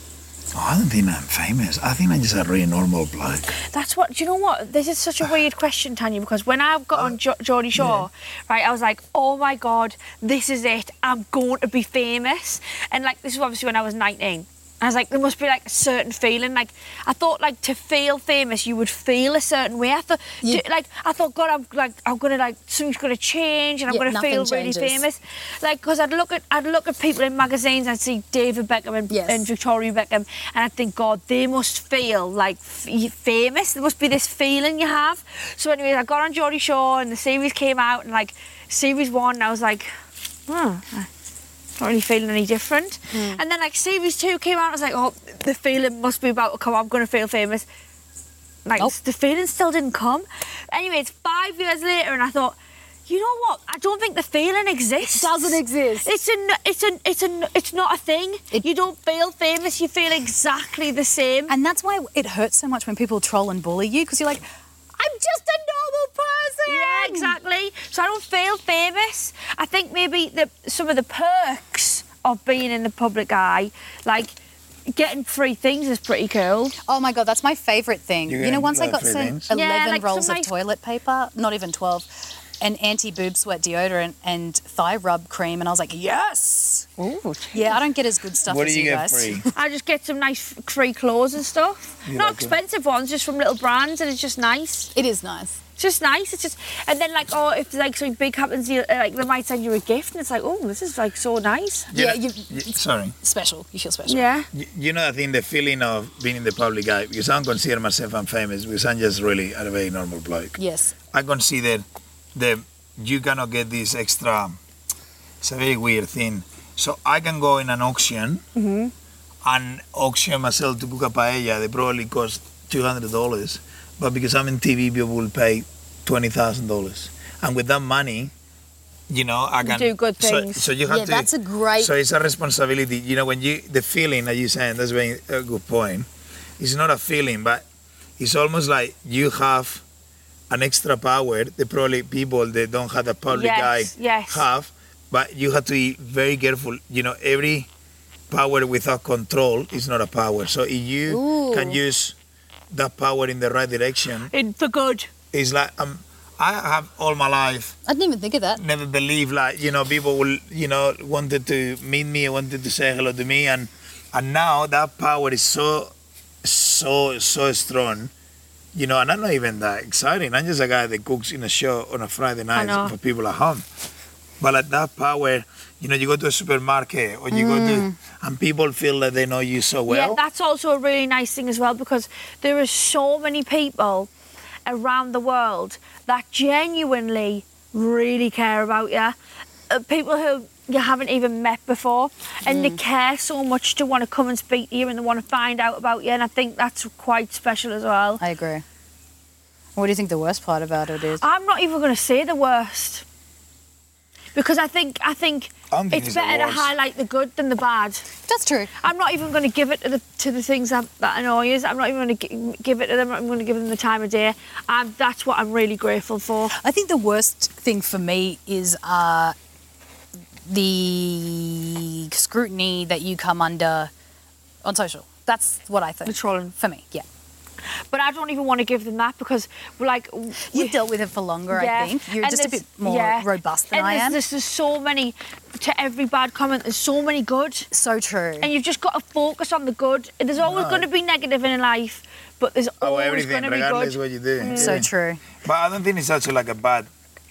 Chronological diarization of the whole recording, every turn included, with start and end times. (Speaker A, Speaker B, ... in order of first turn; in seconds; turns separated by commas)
Speaker A: 0.5-3.6, Speaker B: 3.7-39.9, Speaker A: 7.8-8.1, Speaker C: 23.9-25.0, Speaker C: 29.1-29.5, Speaker B: 40.5-41.1, Speaker B: 41.8-47.7, Speaker C: 43.1-43.4, Speaker B: 48.6-52.6, Speaker B: 53.1-61.5, Speaker C: 55.0-56.1, Speaker C: 61.5-67.4, Speaker B: 66.7-74.4, Speaker B: 74.9-76.8, Speaker C: 76.9-86.9, Speaker A: 78.3-79.5, Speaker B: 79.5-80.5, Speaker B: 87.0-87.8, Speaker C: 87.5-89.5, Speaker A: 88.5-89.5, Speaker B: 89.5-94.9, Speaker A: 92.0-92.5, Speaker C: 95.0-95.6, Speaker B: 95.8-101.9, Speaker A: 101.9-103.2, Speaker C: 101.9-104.3, Speaker B: 104.1-104.5, Speaker A: 104.5-110.6, Speaker C: 110.6-111.0, Speaker A: 111.1-114.6, Speaker A: 115.4-118.4, Speaker B: 118.6-118.9, Speaker A: 119.4-128.3, Speaker A: 129.1-136.1, Speaker B: 129.6-130.7, Speaker C: 130.9-131.9, Speaker A: 136.6-137.7, Speaker A: 138.2-139.8, Speaker A: 140.5-147.7, Speaker B: 143.3-144.5, Speaker A: 148.3-152.2, Speaker C: 151.1-151.8, Speaker A: 152.7-154.3, Speaker B: 154.3-155.1, Speaker A: 155.3-157.8, Speaker C: 157.9-158.6, Speaker A: 158.6-168.1, Speaker A: 168.7-173.6, Speaker B: 172.6-172.9, Speaker A: 174.4-180.2, Speaker C: 177.3-177.9, Speaker B: 179.9-184.1, Speaker B: 184.7-189.2, Speaker B: 189.7-198.2, Speaker C: 192.5-192.8, Speaker C: 198.2-198.6, Speaker C: 199.8-201.2, Speaker B: 201.2-203.1, Speaker B: 204.3-208.1, Speaker A: 205.7-206.7, Speaker C: 208.3-208.7, Speaker B: 208.8-216.5, Speaker C: 216.6-219.3, Speaker C: 220.5-223.9, Speaker C: 224.6-227.1, Speaker B: 226.1-226.5, Speaker B: 227.9-230.8, Speaker C: 230.5-234.2, Speaker B: 231.5-237.7, Speaker C: 237.7-238.5, Speaker B: 238.4-244.8, Speaker A: 240.4-240.9, Speaker A: 242.8-246.9, Speaker C: 244.5-245.2